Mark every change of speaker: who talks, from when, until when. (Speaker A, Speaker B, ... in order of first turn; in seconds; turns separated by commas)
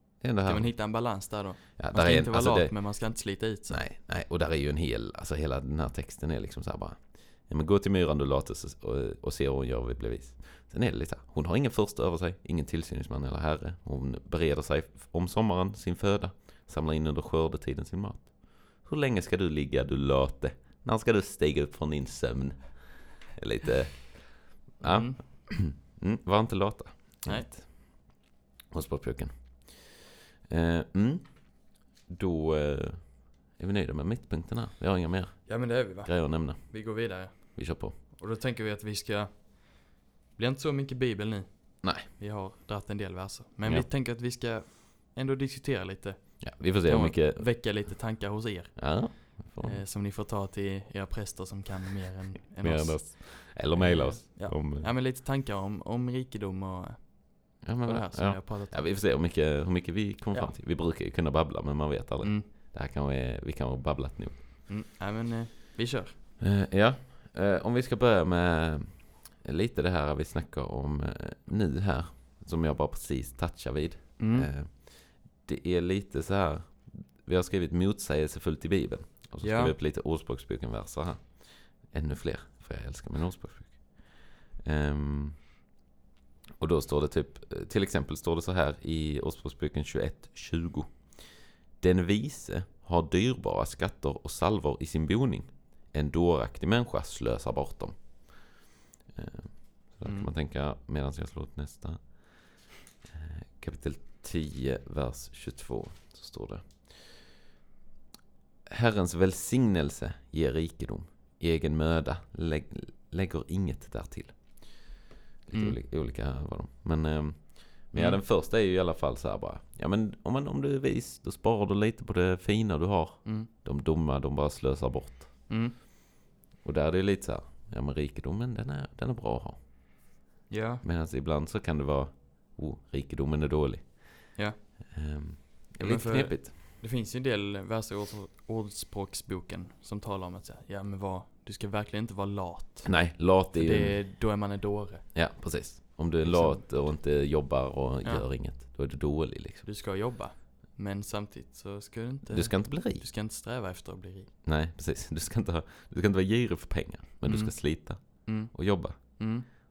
Speaker A: 0.2-0.7, Speaker B: 0.4-3.8, Speaker A: 1.8-2.8, Speaker A: 3.7-38.0, Speaker B: 24.8-25.2, Speaker B: 27.2-27.5, Speaker B: 35.5-58.8, Speaker A: 41.8-42.1, Speaker A: 43.6-43.9, Speaker A: 46.4-47.9, Speaker A: 48.8-49.8, Speaker A: 52.6-54.9, Speaker A: 57.6-64.4, Speaker B: 62.2-62.5, Speaker B: 64.7-66.1, Speaker A: 66.4-85.5, Speaker B: 74.2-74.5, Speaker B: 79.4-79.8, Speaker A: 86.6-98.4, Speaker A: 99.1-107.1, Speaker B: 100.0-100.3, Speaker A: 108.7-114.8, Speaker A: 115.5-125.5, Speaker B: 115.5-115.8, Speaker B: 117.9-118.2, Speaker B: 123.2-123.5, Speaker B: 125.5-125.8, Speaker A: 126.6-129.6, Speaker B: 130.5-130.8, Speaker A: 130.8-134.2, Speaker A: 134.9-136.5, Speaker B: 135.8-145.1, Speaker A: 142.8-144.1, Speaker A: 145.1-149.7, Speaker B: 146.2-146.6, Speaker B: 149.6-154.3, Speaker A: 152.3-153.0, Speaker A: 154.4-159.2, Speaker B: 157.2-159.5